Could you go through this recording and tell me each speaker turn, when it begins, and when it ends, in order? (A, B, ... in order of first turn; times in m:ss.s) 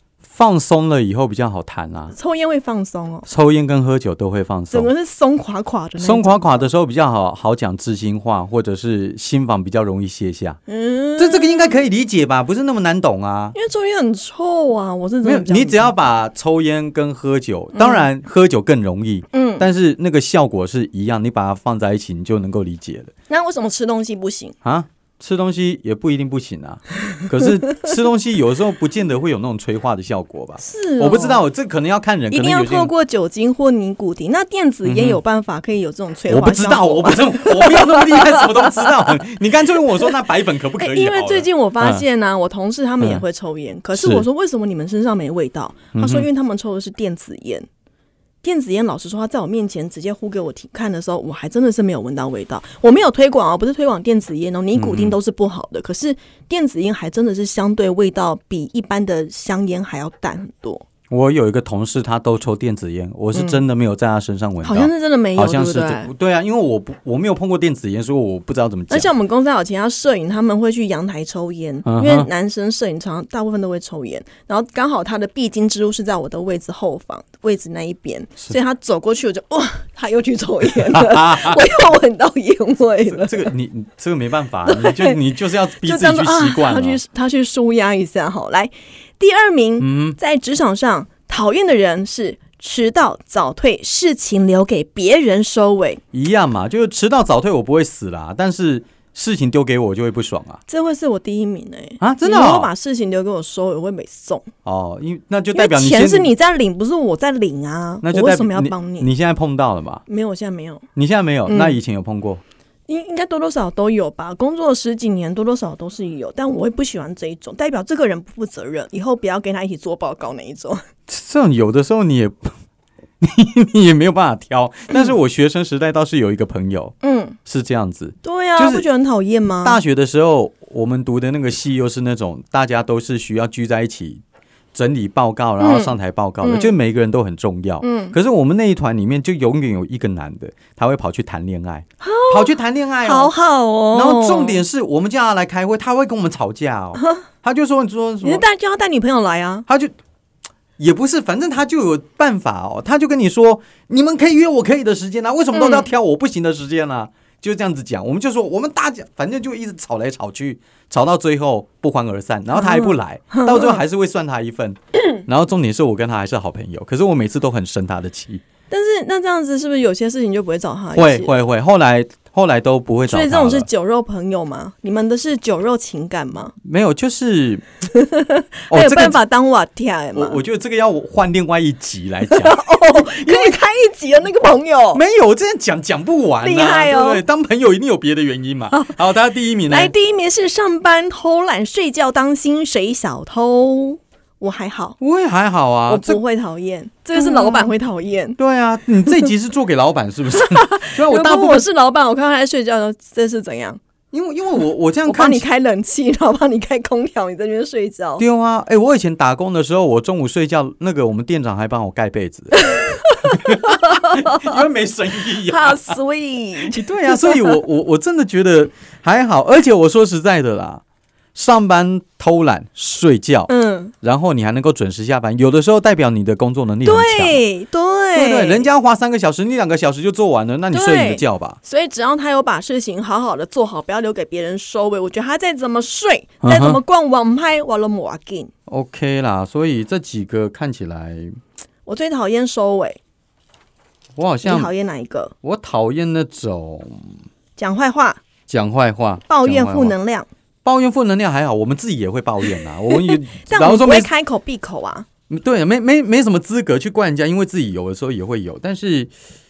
0:00.2-0:02.1 A
0:02.1-0:03.3 B
0:03.3-0:04.9 A
0:04.7-0:06.6 B
0:06.0-0:10.6 A
0:10.7-0:11.8 B
0:11.2-0:13.5 A
0:13.5-0:15.9 B
0:15.2-0:23.1 A
0:17.7-0:18.1 B
0:19.3-0:19.7 B
0:23.3-0:24.5 B
0:24.6-0:32.9 A
0:30.6-0:31.4 B
0:32.3-0:39.1 B
0:34.8-0:35.2 A
0:36.3-0:42.0 A
0:40.8-0:47.7 B
0:43.9-0:44.2 A
0:45.9-0:46.3 A
0:48.4-1:00.8 B
0:54.7-0:55.2 A
1:01.1-1:09.1 A
1:03.3-1:03.6 B
1:04.6-1:06.1 B
1:08.9-1:23.5 B
1:11.8-1:12.3 A
1:20.9-1:21.6 A
1:23.1-1:27.0 A
1:24.6-1:25.2 B
1:25.8-1:36.0 B
1:29.8-1:30.2 A
1:36.1-1:40.6 A
1:40.7-1:44.5 B
1:42.0-1:42.7 A
1:44.6-1:46.3 A
1:45.5-1:49.1 B
1:48.0-1:50.0 A
1:50.1-1:50.8 B
1:50.9-1:52.4 A
1:51.5-1:51.8 B
1:52.9-2:00.8 B
2:01.1-2:02.5 A
2:03.2-2:06.9 A
2:07.0-2:07.4 B
2:07.4-2:08.8 A
2:08.2-2:09.8 B
2:09.6-2:14.2 A
2:14.7-2:23.3 A
2:15.6-2:16.7 B
2:17.8-2:18.2 B
2:22.0-2:24.6 B
2:23.9-2:28.4 A
2:27.0-2:27.2 B
2:28.2-2:29.6 B
2:29.7-2:29.9 A
2:30.8-2:48.4 A
2:35.5-2:35.9 B
2:42.5-2:43.8 B
2:48.7-2:51.3 B
2:51.0-2:53.7 A
2:53.1-2:56.5 B
2:56.6-2:57.6 A
2:57.9-3:00.4 B
2:58.7-2:59.2 A
3:00.1-3:03.6 A
3:02.3-3:05.0 B
3:04.9-3:09.9 A
3:06.4-3:07.2 B
3:09.7-3:15.0 B
3:15.0-3:16.2 A
3:15.9-3:18.4 B
3:17.1-3:17.7 A
3:18.4-3:21.6 A
3:20.3-3:23.8 B
3:24.1-3:25.4 A
3:25.0-3:28.2 B
3:28.2-3:32.6 A
3:32.5-3:34.6 B
3:33.2-3:36.0 A
3:35.3-3:37.5 B
3:36.7-3:40.8 A
3:41.3-3:43.5 A
3:43.5-3:43.9 B
3:44.0-3:47.4 A
3:46.8-3:48.6 B
3:48.1-3:51.6 A
3:50.7-3:58.5 B
3:56.4-3:56.8 A
3:58.7-4:01.4 A
4:01.8-4:03.0 B
4:04.2-4:04.7 A
4:04.4-4:05.3 B
4:05.4-4:07.1 A
4:07.6-4:08.2 B
4:08.5-4:10.0 A
4:09.3-4:10.3 B
4:10.6-4:14.1 A
4:12.9-4:15.1 B
4:15.3-4:19.1 A